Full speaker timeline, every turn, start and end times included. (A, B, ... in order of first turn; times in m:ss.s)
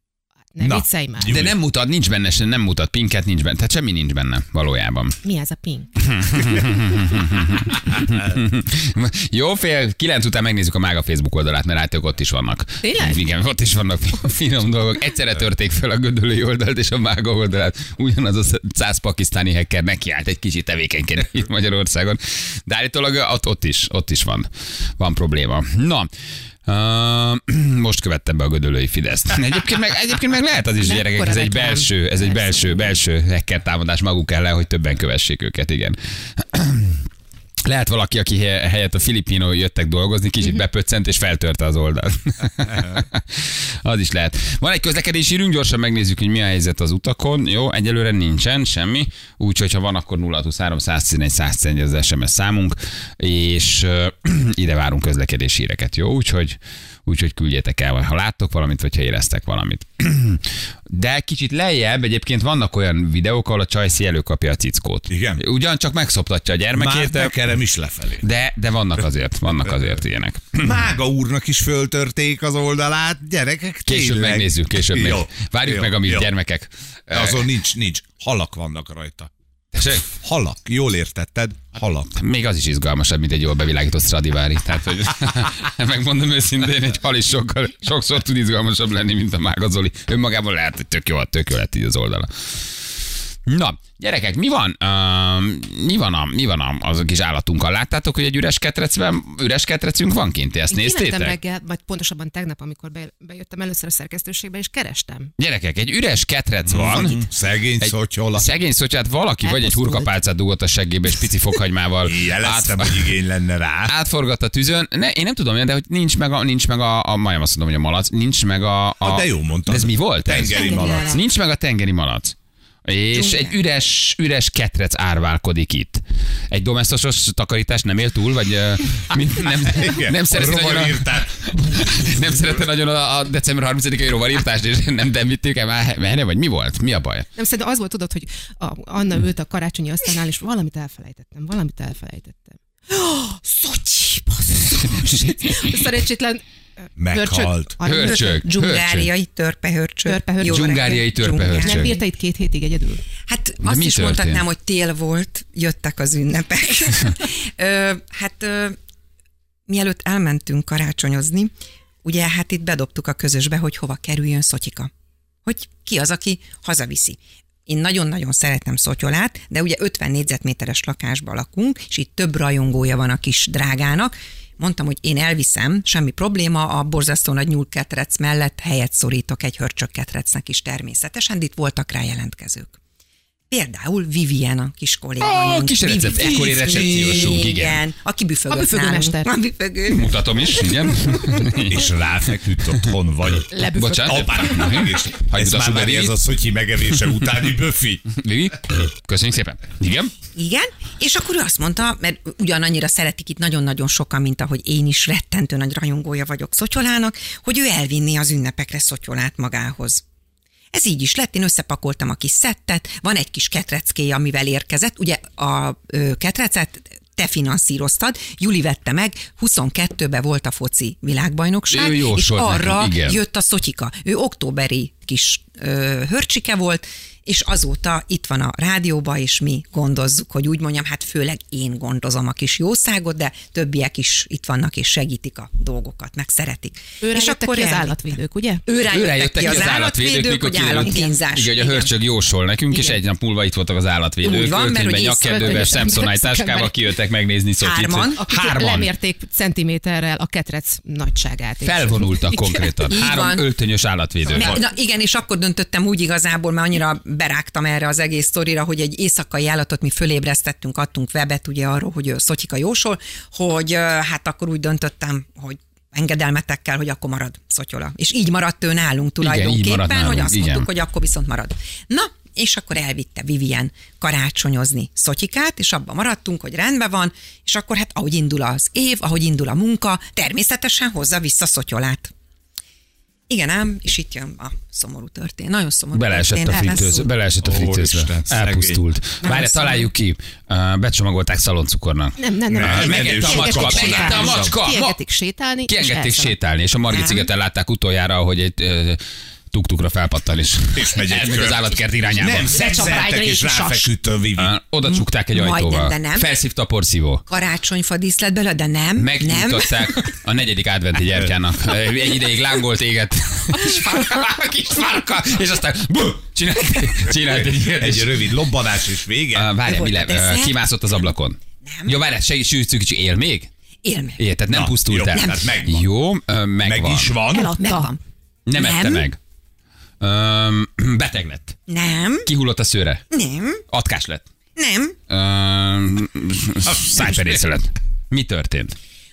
0:00.5-0:01.4 A
0:00.6-0:01.6 B
0:01.2-0:05.2 C
0:05.2-0:06.0 A
0:06.0-0:26.1 C
0:12.8-0:13.2 A
0:26.6-0:37.1 C
0:30.8-0:32.8 A
0:37.6-1:07.3 C
1:05.1-1:05.4 B
1:06.7-1:08.2 B
1:08.2-1:10.8 C
1:10.6-1:16.3 B
1:13.8-1:17.5 C
1:17.1-1:19.3 B
1:19.7-1:20.1 C
1:20.2-1:22.1 B
1:22.1-1:32.3 C
1:33.4-1:41.4 C
1:40.7-1:45.3 A
1:45.4-1:47.2 C
1:46.7-1:48.5 B
1:47.8-1:53.2 C
1:49.4-1:50.2 A
1:52.0-1:53.9 B
1:53.8-2:02.3 C
1:59.0-2:01.2 B
2:00.4-2:01.1 D
2:00.6-2:01.2 A
2:02.8-2:17.3 C
2:03.1-2:03.6 D
2:09.7-2:12.0 B
2:17.4-2:26.4 A
2:27.0-2:27.8 B
2:27.1-2:28.4 A
2:27.8-2:29.1 C
2:28.0-2:31.9 D
2:30.0-2:31.1 A
2:30.5-2:31.9 C
2:31.6-2:33.0 A
2:33.3-2:38.8 D
2:33.6-2:34.4 C
2:39.7-2:41.5 D
2:42.0-2:44.9 D
2:45.4-3:02.8 D
3:03.5-3:11.6 D
3:05.2-3:07.8 C
3:08.5-3:09.4 A
3:09.8-3:11.9 C
3:11.6-3:13.5 B
3:13.5-3:14.8 A
3:13.7-3:16.2 C
3:14.0-3:18.0 B
3:16.9-3:17.5 C
3:18.0-3:20.1 C
3:20.4-3:30.0 D
3:30.7-3:58.1 D
3:41.7-3:43.2 C
3:57.0-3:58.8 A
3:58.7-4:01.9 D
3:58.9-4:08.9 C
4:02.7-4:03.0 A
4:04.2-4:05.8 D
4:05.2-4:06.9 A
4:07.6-4:08.2 D
4:08.1-4:12.9 A
4:11.6-4:14.6 C
4:12.9-4:13.5 D
4:14.3-4:42.1 D
4:29.2-4:30.7 C
4:43.3-4:47.1 D
4:45.9-4:52.2 C
4:46.5-4:46.8 A
4:47.4-4:48.8 B
4:49.2-4:49.9 A
4:52.2-4:56.3 A
4:52.5-4:54.5 B
4:52.7-4:55.0 C
4:55.7-4:59.0 C
4:56.9-4:57.3 D
4:59.5-5:02.8 C
5:00.7-5:04.5 B
5:02.6-5:03.8 A
5:04.4-5:07.2 C
5:04.8-5:06.3 D
5:07.3-5:09.9 D
5:09.0-5:18.4 C
5:17.3-5:19.5 B
5:19.3-5:23.5 C
5:19.6-5:20.8 D
5:21.6-5:22.0 D
5:23.8-5:24.2 D
5:24.2-5:27.2 C
5:24.5-5:25.8 B
5:25.1-5:25.5 D
5:26.6-5:27.6 B
5:27.3-5:28.0 A
5:27.3-5:28.0 D
5:28.4-5:29.2 C
5:28.5-5:29.1 D
5:30.0-5:31.5 C
5:31.7-5:32.3 D
5:32.2-5:33.0 C
5:33.1-5:33.6 D
5:33.7-5:34.2 C
5:34.6-5:34.9 D
5:35.1-5:38.7 C
5:36.6-5:37.3 B